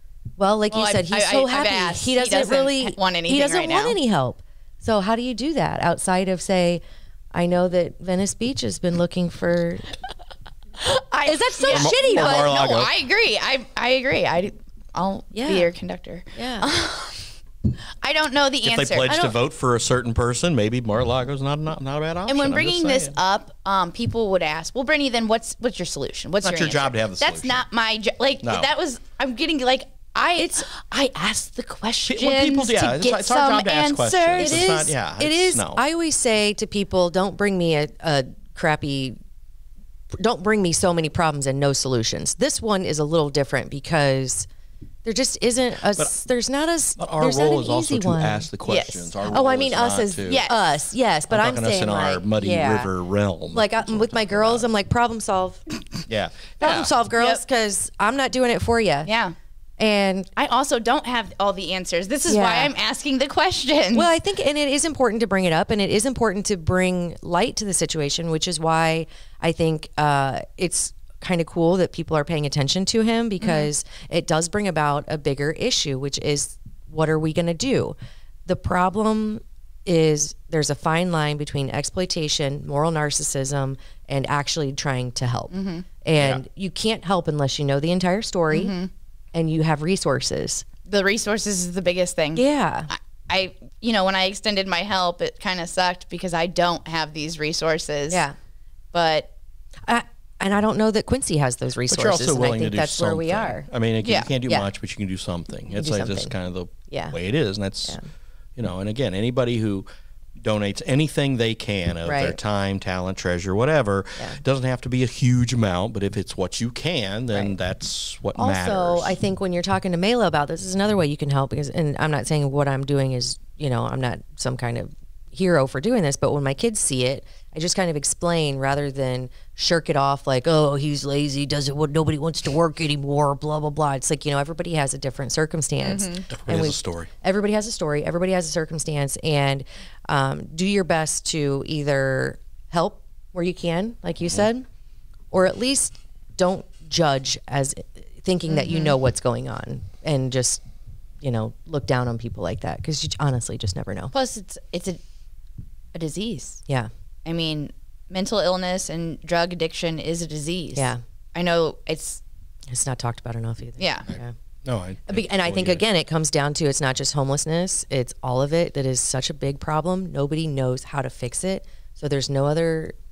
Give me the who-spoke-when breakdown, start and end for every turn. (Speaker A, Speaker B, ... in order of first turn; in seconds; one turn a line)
Speaker A: 0.4-6.8
Speaker B: 0.7-4.0
Speaker A: 7.3-9.8
Speaker B: 10.8-17.3
Speaker A: 11.2-12.5
Speaker C: 11.7-12.9
Speaker A: 15.3-15.7
Speaker A: 16.3-16.6
Speaker B: 18.0-19.4
Speaker C: 18.6-23.1
Speaker B: 22.3-34.7
Speaker C: 26.4-27.6
Speaker C: 28.4-28.7
Speaker A: 30.4-30.6
Speaker C: 32.1-35.8
Speaker A: 34.3-39.2
Speaker A: 40.1-44.5
Speaker A: 45.0-48.5
Speaker C: 47.0-50.4
Speaker B: 48.6-49.1
Speaker A: 49.2-52.9
Speaker B: 50.2-50.6
Speaker C: 51.3-54.7
Speaker A: 53.5-55.6
Speaker C: 56.1-56.9
Speaker A: 56.6-59.1
Speaker B: 59.0-59.3
Speaker A: 59.8-60.3
Speaker B: 60.4-64.1
Speaker A: 62.3-62.7
Speaker A: 63.9-77.9
Speaker B: 73.4-73.7
Speaker A: 78.5-88.7
Speaker B: 85.5-85.8
Speaker C: 86.2-86.4
Speaker B: 88.5-88.9
Speaker A: 89.3-90.6
Speaker B: 90.8-98.2
Speaker A: 92.3-92.9
Speaker B: 98.9-99.3
Speaker A: 99.8-103.7
Speaker C: 101.9-108.0
Speaker B: 104.0-104.3
Speaker A: 105.8-106.3
Speaker A: 106.9-107.2
Speaker C: 108.6-109.8
Speaker C: 110.4-119.1
Speaker A: 112.0-112.4
Speaker A: 118.4-144.7
Speaker B: 135.8-136.2
Speaker C: 136.3-137.1
Speaker A: 145.3-150.6
Speaker B: 148.5-148.9
Speaker A: 151.2-154.1
Speaker B: 154.1-155.0
Speaker B: 155.9-156.6
Speaker B: 157.2-162.2
Speaker A: 160.7-161.0
Speaker A: 162.7-164.3
Speaker B: 163.8-164.1
Speaker C: 164.6-165.8
Speaker A: 165.1-172.9